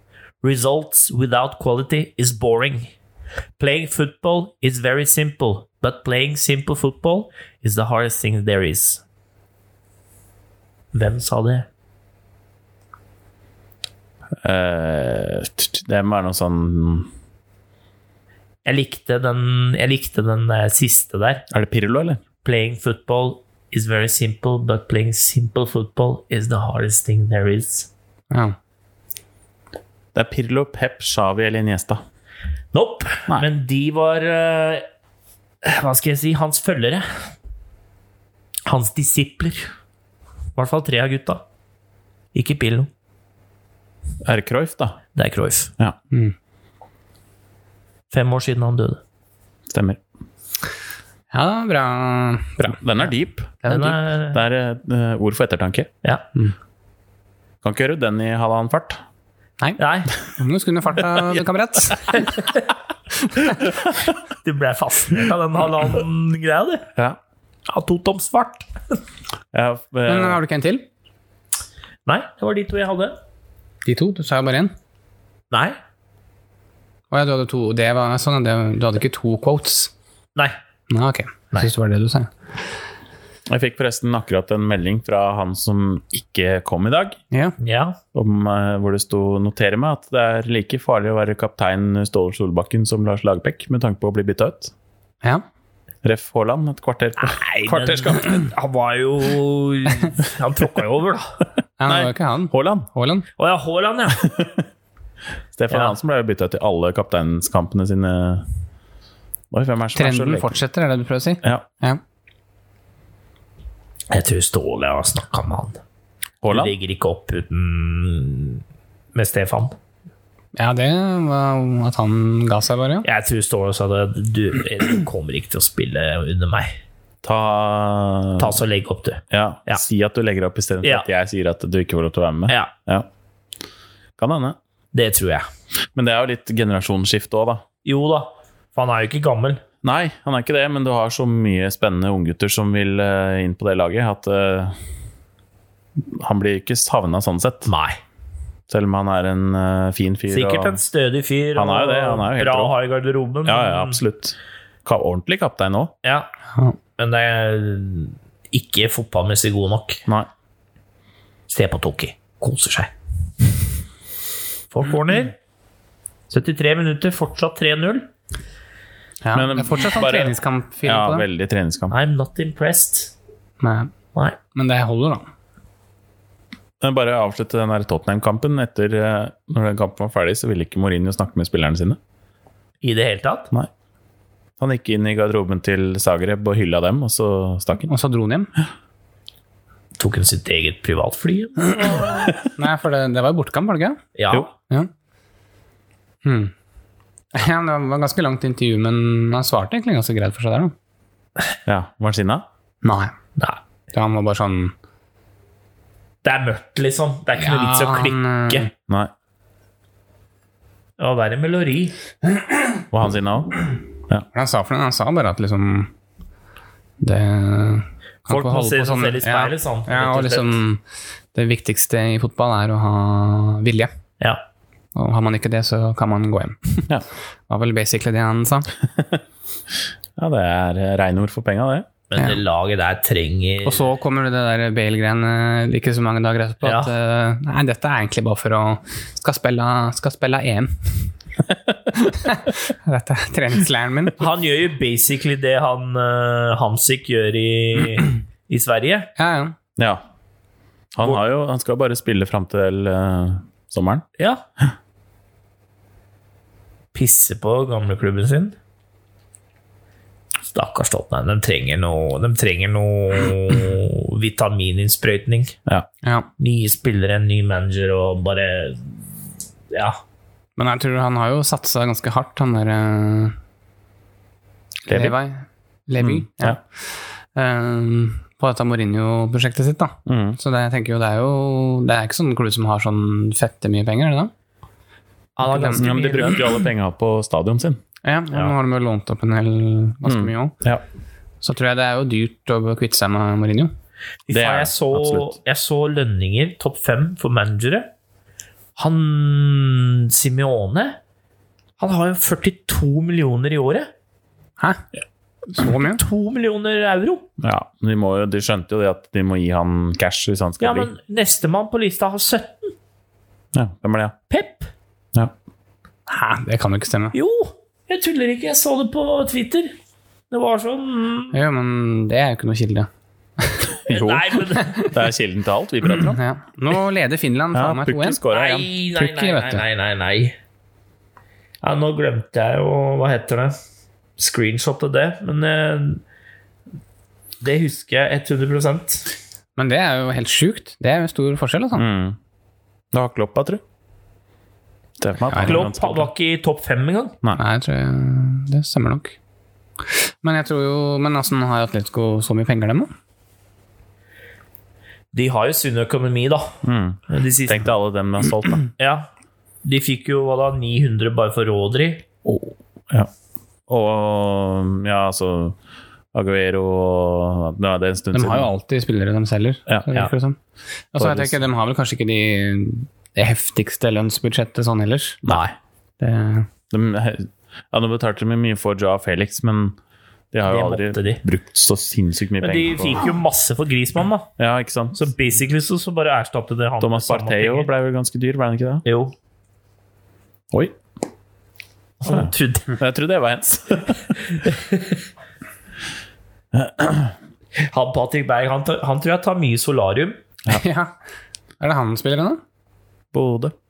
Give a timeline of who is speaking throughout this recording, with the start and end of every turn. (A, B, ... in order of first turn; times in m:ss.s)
0:00.4-0:02.9 A
0:03.6-0:09.0 A
0:10.9-0:11.7 A
0:14.4-0:17.1 B
0:18.6-0:21.4 A
0:21.5-0:22.2 B
0:22.4-0:27.9 A
0:28.3-0:28.6 C
0:30.1-0:32.0 B
0:32.7-0:34.8 A
0:35.6-0:37.1 A
0:38.6-0:39.7 A
0:40.6-0:41.4 A
0:42.3-0:42.9 A
0:44.2-0:45.0 B
0:45.1-0:45.7 A
0:48.1-0:49.0 A
0:49.7-0:50.0 B
0:51.3-0:52.8 C
0:52.6-0:53.6 B
0:53.6-0:53.9 C
0:53.7-0:54.4 A
0:54.3-0:55.9 B
0:57.6-0:59.0 B
0:59.6-1:02.2 C
0:59.8-1:00.1 A
1:02.2-1:02.6 A
1:03.7-1:06.9 A
1:07.7-1:08.7 A
1:09.5-1:10.4 B
1:10.0-1:10.8 C
1:12.0-1:13.2 A
1:13.8-1:14.7 C
1:15.5-1:15.8 A
1:17.1-1:19.9 C
1:20.9-1:22.3 C
1:23.5-1:27.2 B
1:27.6-1:28.0 A
1:28.1-1:34.7 B
1:36.0-1:38.5 B
1:37.2-1:41.4 A
1:41.8-1:43.3 C
1:41.8-1:42.9 B
1:43.4-1:44.4 A
1:44.2-1:44.5 B
1:45.5-1:48.4 B
1:45.7-1:45.9 A
1:49.5-1:50.6 B
1:50.0-1:52.0 C
1:54.1-1:55.8 A
1:56.4-1:56.7 B
1:56.5-1:58.6 A
1:59.1-1:59.7 A
2:00.6-2:03.0 C
2:03.0-2:06.8 A
2:07.2-2:08.6 B
2:08.4-2:09.8 A
2:09.3-2:13.1 B
2:14.2-2:14.6 B
2:14.9-2:15.4 A
2:15.9-2:17.6 B
2:17.8-2:19.6 A
2:19.8-2:24.8 B
2:26.0-2:27.7 B
2:27.7-2:28.0 A
2:28.7-2:30.8 B
2:30.3-2:34.0 A
2:31.6-2:32.7 B
2:33.4-2:35.9 B
2:36.0-2:36.3 A
2:37.0-2:40.0 A
2:41.5-2:42.9 A
2:44.7-2:45.3 A
2:46.3-2:48.1 A
2:49.2-2:51.2 C
2:49.3-2:51.9 B
2:51.9-2:53.1 A
2:53.6-2:53.9 C
2:54.5-2:55.3 C
2:56.8-3:02.0 B
3:02.8-3:03.5 A
3:04.6-3:07.9 B
3:07.9-3:08.5 C
3:10.0-3:12.1 A
3:11.8-3:14.0 C
3:14.2-3:14.5 A
3:16.2-3:16.5 C
3:17.3-3:20.7 C
3:21.6-3:22.4 B
3:22.8-3:23.1 C
3:23.9-3:24.7 C
3:26.2-3:28.6 A
3:27.4-3:28.7 C
3:31.0-3:31.9 A
3:32.9-3:33.6 B
3:34.3-3:35.9 C
3:37.0-3:40.8 C
3:38.3-3:40.6 A
3:41.3-3:43.9 C
3:44.9-3:46.9 C
3:47.5-3:48.7 C
3:48.9-3:49.2 B
3:50.2-3:51.9 B
3:52.1-3:53.9 A
3:53.6-4:01.1 C
3:56.6-3:56.9 A
4:02.0-4:04.1 C
4:04.2-4:09.1 A
4:09.2-4:09.5 C
4:09.8-4:10.0 B
4:10.9-4:14.0 B
4:16.9-4:18.6 A
4:20.5-4:25.6 A
4:26.4-4:29.0 A
4:29.7-4:30.0 A
4:30.6-4:33.4 C
4:34.9-4:35.2 B
4:34.9-4:36.6 C
4:36.0-4:36.6 B
4:37.3-4:44.3 C
4:40.0-4:40.4 B
4:45.4-4:46.5 A
4:45.4-4:45.9 C
4:45.8-4:47.8 B
4:48.0-4:50.5 C
4:50.0-4:50.8 B
4:51.4-4:53.7 C
4:54.3-4:57.9 A
4:54.3-4:55.3 B
4:58.8-5:01.0 A
5:01.8-5:03.9 A
5:05.5-5:06.0 C
5:05.7-5:07.2 A
5:07.4-5:10.9 B
5:10.6-5:12.7 A
5:13.5-5:14.2 B
5:14.3-5:14.7 A
5:16.1-5:17.1 C
5:17.1-5:19.7 A
5:20.3-5:21.4 A
5:21.3-5:23.7 C
5:23.8-5:24.8 A
5:23.9-5:26.2 B
5:24.6-5:24.9 C
5:25.8-5:28.2 C
5:27.5-5:28.7 B
5:28.3-5:30.3 A
5:29.0-5:29.6 C
5:31.6-5:33.5 A
5:34.2-5:36.0 A
5:37.4-5:39.1 A
5:39.6-5:41.8 C
5:41.7-5:42.2 B
5:42.9-5:43.6 B
5:45.0-5:46.1 B
5:45.3-5:45.6 C
5:45.3-5:47.2 A
5:47.3-5:49.2 C
5:50.0-5:52.9 C
5:55.1-5:56.6 A
5:56.6-5:58.7 B
5:57.1-5:57.6 A
5:58.8-5:59.1 A
5:59.6-6:02.0 A
6:02.2-6:03.1 B
6:03.7-6:05.6 B
6:06.1-6:08.5 B
6:08.1-6:10.4 C
6:10.9-6:15.2 C
6:11.0-6:11.4 B
6:15.2-6:15.5 B
6:16.0-6:16.5 C
6:16.7-6:19.8 B
6:20.3-6:23.1 B
6:20.4-6:21.2 A
6:22.4-6:24.3 A
6:24.4-6:25.0 B
6:24.9-6:27.7 A
6:26.8-6:28.8 B
6:28.8-6:29.1 A
6:32.0-6:32.8 A
6:32.0-6:34.2 B
6:34.4-6:35.0 A
6:36.5-6:37.1 B
6:37.6-6:40.2 A
6:40.5-6:40.9 C
6:41.6-6:42.4 C
6:43.1-6:43.5 B